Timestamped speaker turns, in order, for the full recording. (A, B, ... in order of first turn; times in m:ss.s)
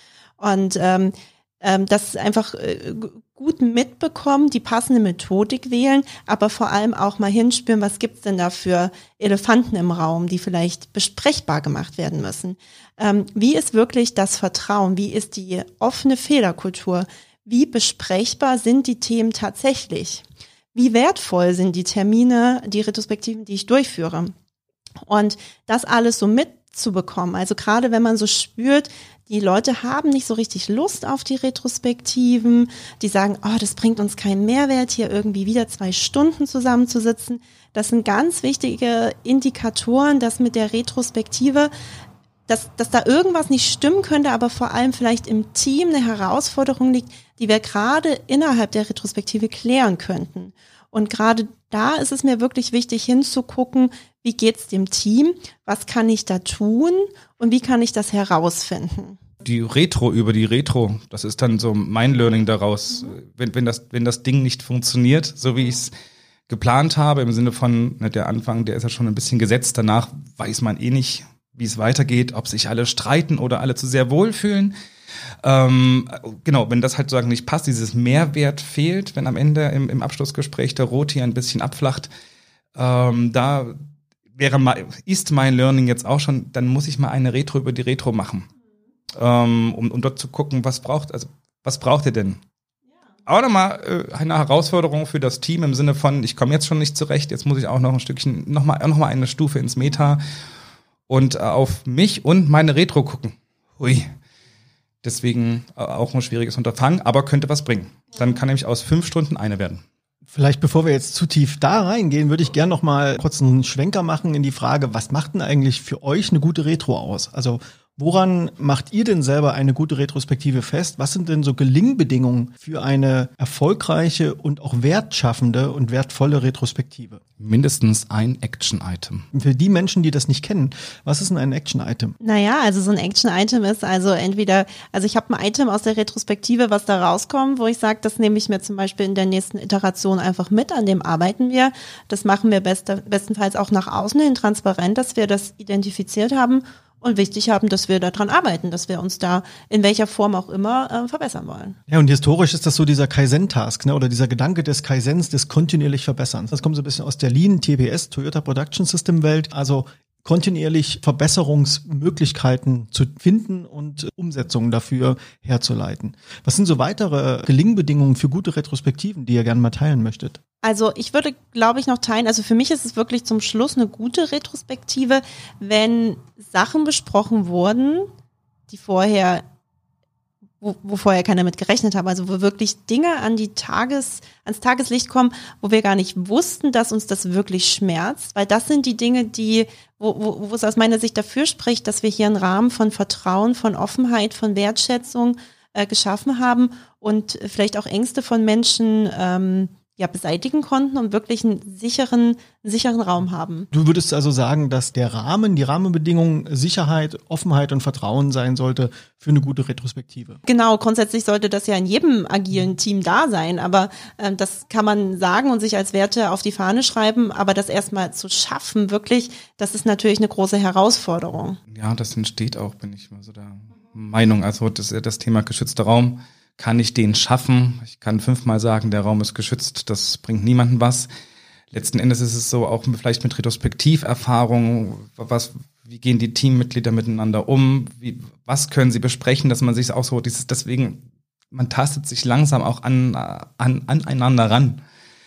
0:00.4-0:24.3 A
0:25.0-0:41.7 A
0:42.5-0:59.2 A
0:59.4-1:05.9 B
1:06.5-1:14.7 B
1:15.4-1:22.1 B
1:22.8-1:23.8 B
1:24.4-1:28.5 B
1:29.1-1:32.4 B
1:33.3-1:40.2 B
1:41.1-1:44.1 B
1:45.0-1:49.8 B
1:50.3-2:07.2 C
2:07.4-2:09.3 B
2:09.3-2:12.2 C
2:12.2-2:31.8 A
2:31.9-2:50.4 C
2:50.6-2:58.1 A
2:58.7-2:59.4 A
3:00.6-3:23.7 A
3:23.7-3:30.4 C
3:30.4-3:41.6 A
3:41.7-3:51.1 B
3:51.7-4:04.8 B